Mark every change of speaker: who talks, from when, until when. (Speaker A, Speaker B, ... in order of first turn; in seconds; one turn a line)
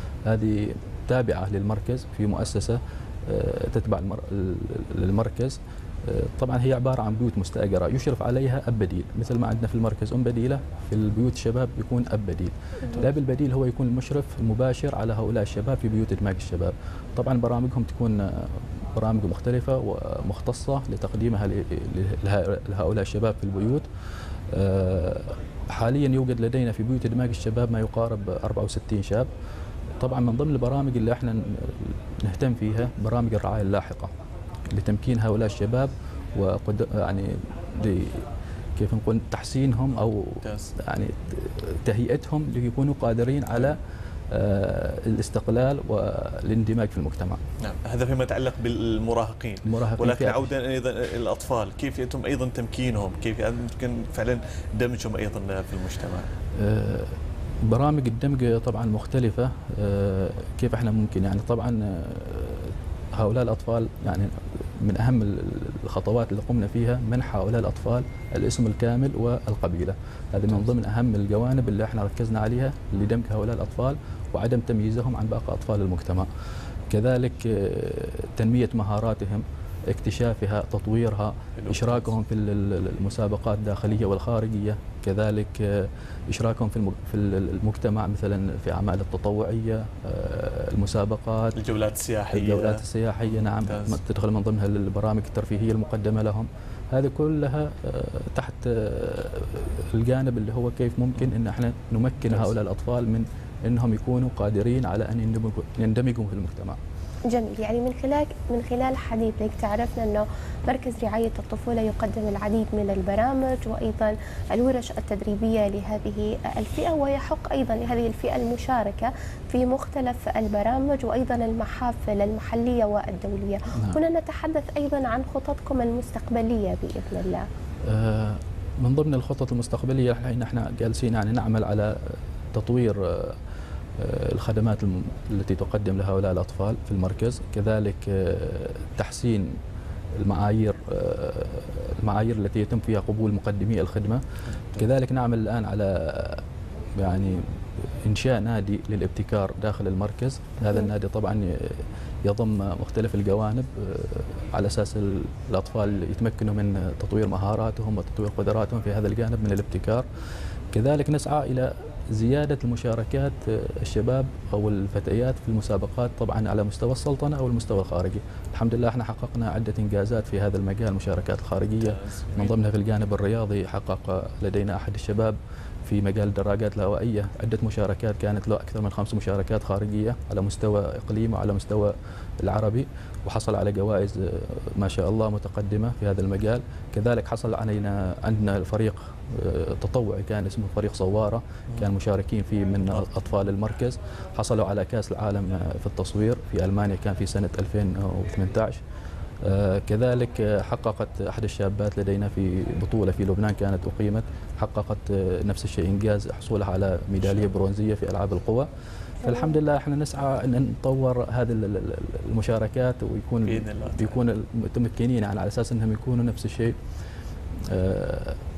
Speaker A: 0.2-23.9
Speaker A: 24.5-29.3
Speaker A: 30.0-34.1
Speaker A: 34.7-43.8
Speaker B: 40.4-40.7
Speaker A: 44.3-47.4
Speaker B: 47.6-56.3
Speaker A: 49.6-50.5
Speaker A: 56.5-76.3
Speaker A: 76.9-91.6
Speaker B: 81.6-82.0
Speaker B: 91.6-94.0
Speaker A: 92.3-106.8
Speaker B: 102.3-102.5
Speaker C: 107.3-127.5
Speaker A: 123.7-124.0
Speaker A: 127.8-133.4
Speaker A: 134.0-139.6
Speaker A: 140.2-144.2
Speaker A: 144.8-146.4
Speaker A: 146.9-160.1
Speaker A: 160.7-198.8
Speaker B: 171.7-172.6
Speaker A: 199.4-208.7
Speaker A: 209.2-216.8
Speaker B: 213.4-214.2
Speaker A: 217.7-218.4